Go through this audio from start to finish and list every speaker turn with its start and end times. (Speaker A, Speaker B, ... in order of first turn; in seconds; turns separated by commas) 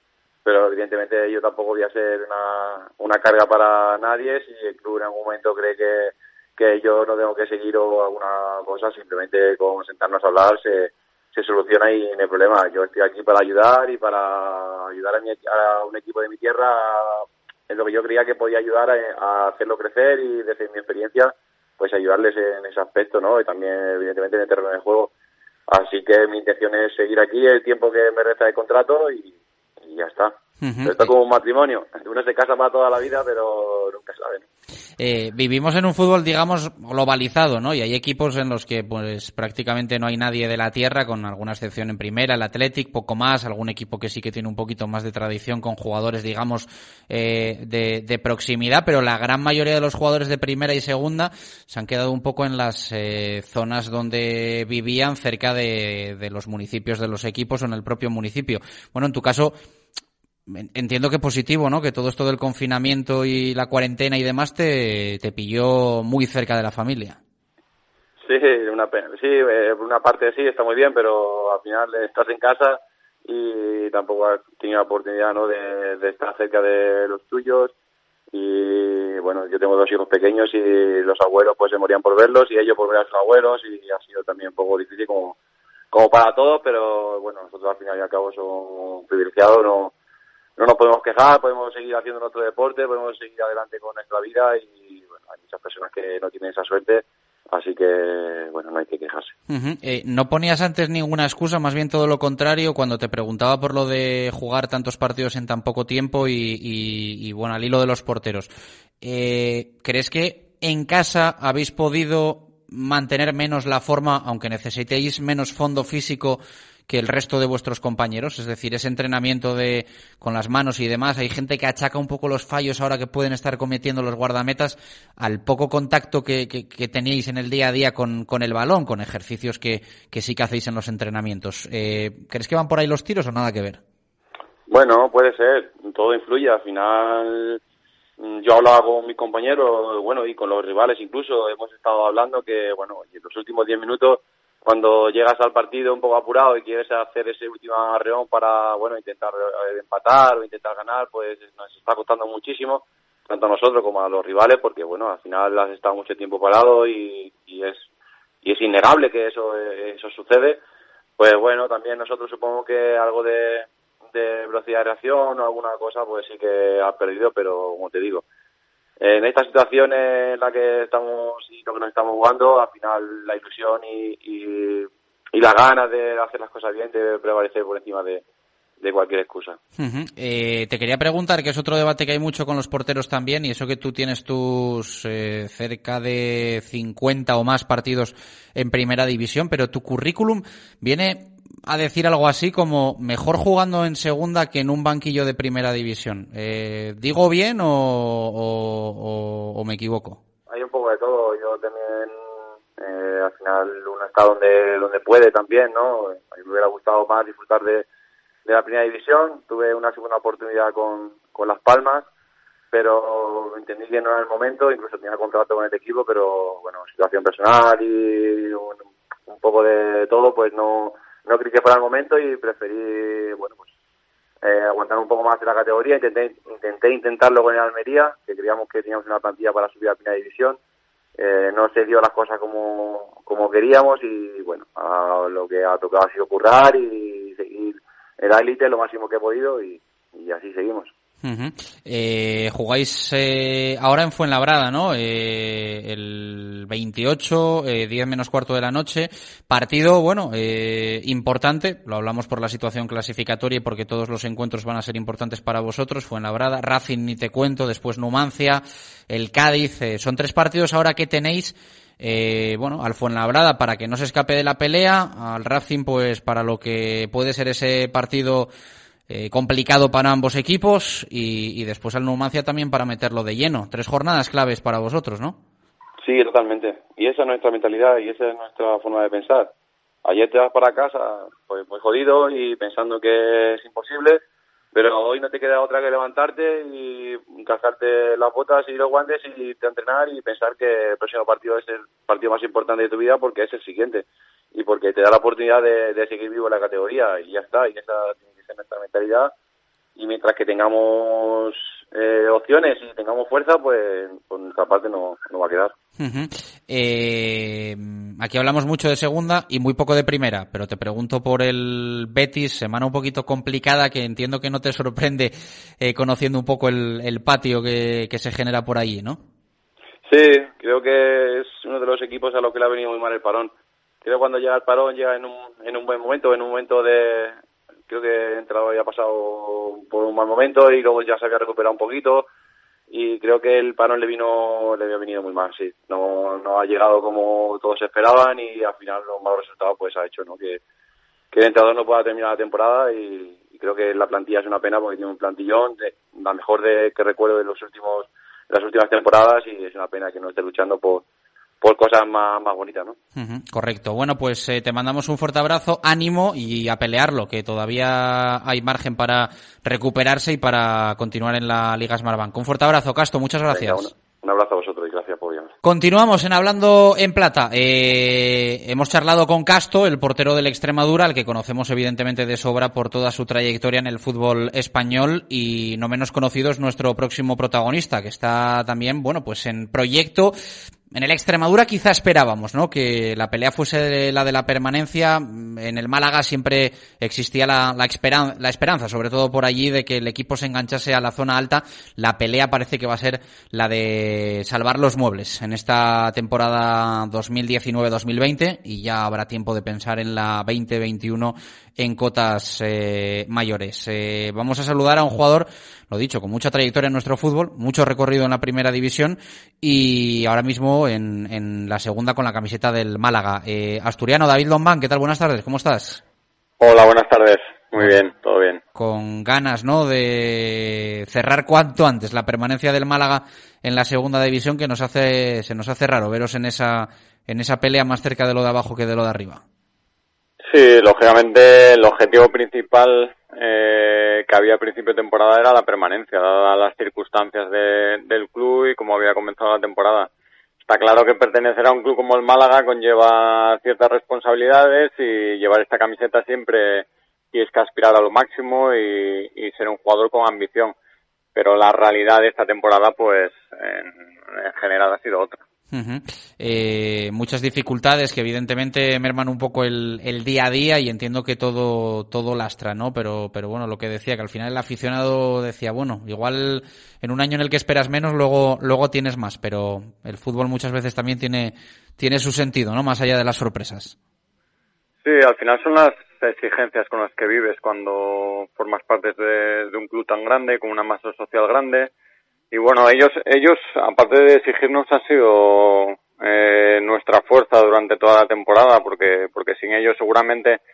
Speaker A: 0.5-25.1, Speaker A: 25.7-34.5, Speaker B: 30.6-31.1, Speaker B: 35.0-59.5, Speaker B: 60.5-67.2, Speaker A: 68.2-77.7, Speaker A: 78.3-85.4, Speaker A: 85.9-89.9, Speaker A: 90.6-99.3, Speaker B: 99.5-108.5, Speaker B: 109.0-133.8, Speaker A: 134.7-137.6, Speaker A: 138.2-157.9, Speaker A: 158.4-160.6, Speaker A: 161.2-168.2, Speaker A: 169.0-178.2, Speaker A: 178.8-179.6, Speaker B: 179.8-200.2, Speaker A: 200.5-202.2, Speaker A: 202.8-207.9, Speaker A: 208.5-212.1, Speaker A: 212.7-223.7, Speaker A: 224.4-230.6, Speaker A: 231.2-240.9, Speaker B: 241.2-268.5, Speaker B: 269.1-275.4, Speaker A: 276.0-279.5, Speaker A: 280.1-299.3, Speaker A: 300.0-305.7, Speaker B: 306.0-319.2, Speaker A: 320.1-323.5, Speaker A: 324.0-327.4, Speaker A: 327.9-332.3, Speaker A: 332.9-340.6, Speaker A: 341.3-351.1, Speaker A: 351.6-353.0, Speaker B: 353.2-363.9, Speaker A: 363.5-365.5, Speaker B: 365.6-380.4, Speaker B: 380.9-416.0, Speaker C: 416.6-418.6, Speaker B: 418.8-429.4, Speaker C: 430.4-440.1, Speaker C: 440.7-450.8, Speaker C: 451.4-455.4, Speaker B: 455.7-473.9, Speaker C: 475.0-481.9, Speaker C: 482.5-490.6